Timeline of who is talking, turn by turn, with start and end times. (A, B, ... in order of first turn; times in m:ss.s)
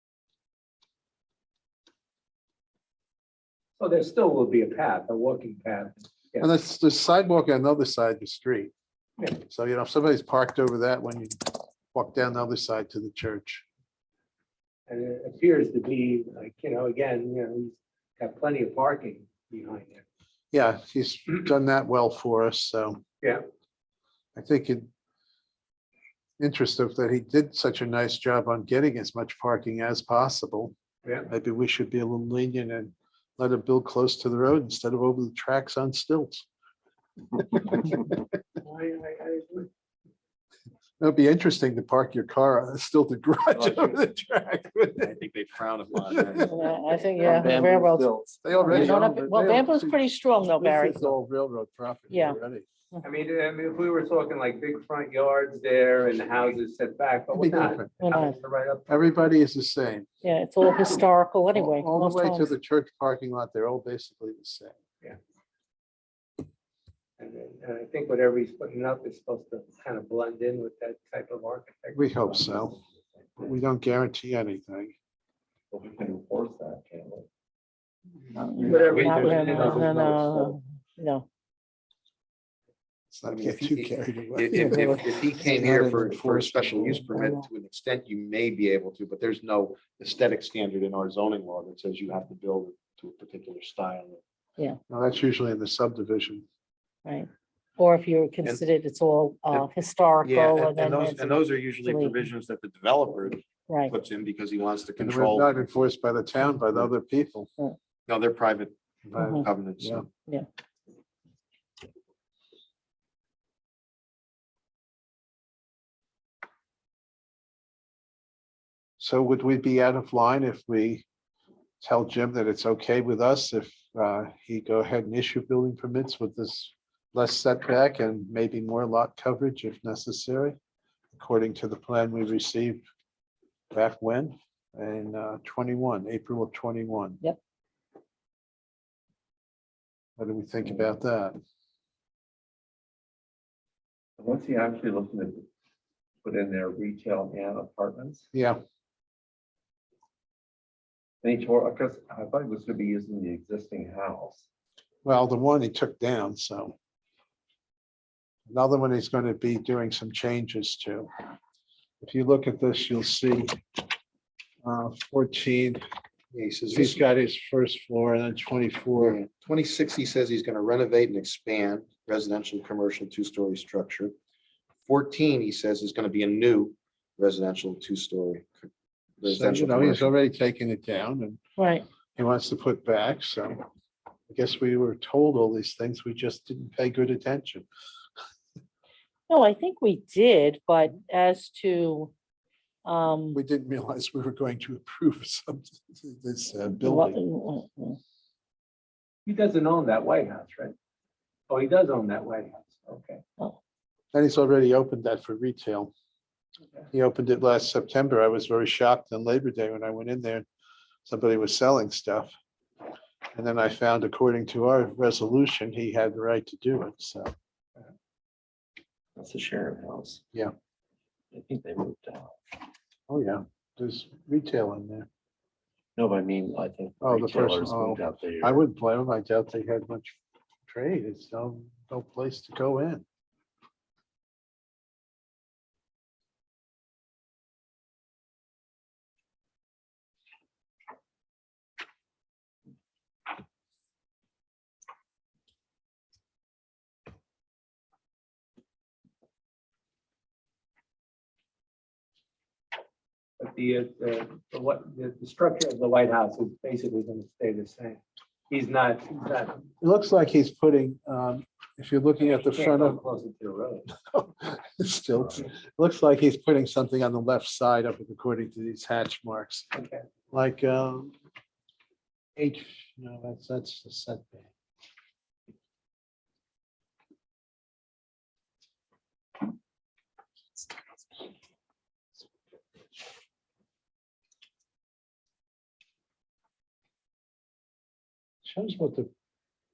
0:03.8-0:06.5 A
0:06.4-0:08.7 B
0:09.4-0:11.4 B
0:11.9-0:13.6 B
0:14.9-0:20.0 A
0:20.5-0:23.0 B
0:24.4-0:24.9 B
0:26.4-0:30.7 B
0:31.3-0:36.4 B
0:37.4-0:38.2 B
0:38.6-0:39.7 A
0:41.0-0:45.2 B
0:45.0-0:47.0 C
0:46.1-0:46.5 B
0:46.4-0:51.1 D
0:47.2-0:49.1 E
0:48.4-0:52.7 B
0:52.1-0:52.4 D
0:53.0-0:59.0 A
0:57.3-0:57.9 B
0:58.0-0:58.4 D
0:58.9-1:00.1 B
1:00.2-1:02.5 D
1:01.5-1:04.7 B
1:07.2-1:12.8 A
1:11.9-1:12.8 B
1:13.4-1:14.9 B
1:15.7-1:17.3 E
1:18.3-1:21.2 D
1:18.6-1:19.8 E
1:18.6-1:20.5 A
1:23.1-1:27.3 B
1:23.3-1:34.2 C
1:34.9-1:36.4 B
1:37.0-1:42.1 D
1:40.2-1:45.5 C
1:43.7-1:43.9 D
1:45.0-1:47.5 B
1:48.1-1:50.1 C
1:49.1-1:50.0 B
1:49.2-1:49.4 D
1:59.0-2:01.0 B
2:01.8-2:10.6 B
2:11.1-2:12.8 B
2:13.7-2:17.2 B
2:20.2-2:21.4 B
2:24.2-2:25.4 E
2:26.2-2:28.2 E
2:28.3-2:28.6 B
2:31.2-2:34.4 E
2:35.0-2:36.7 B
2:38.5-2:41.1 B
2:42.0-2:43.6 B
2:44.6-2:45.8 B
2:46.3-2:47.0 C
2:46.7-2:49.2 B
2:49.0-2:54.1 C
2:54.8-2:58.7 C
2:59.2-3:00.1 C
2:59.2-3:01.4 B
3:01.6-3:01.8 D
3:02.2-3:03.6 B
3:04.3-3:07.6 B
3:09.3-3:12.1 D
3:12.8-3:13.4 D
3:13.3-3:17.2 B
3:16.6-3:18.0 D
3:19.2-3:20.7 A
3:21.5-3:23.2 A
3:24.1-3:25.9 B
3:26.9-3:30.4 B
3:31.0-3:32.3 B
3:33.3-3:37.3 B
3:39.2-3:40.2 E
3:41.3-3:42.4 E
3:43.1-3:45.1 B
3:46.0-3:48.6 E
3:47.0-3:53.0 B
4:13.4-4:19.6 A
4:19.8-4:23.0 B
4:22.2-4:23.9 A
4:24.0-4:29.7 B
4:29.7-4:30.0 A
4:30.3-4:31.1 B
4:32.4-4:34.5 B
4:48.4-4:49.1 B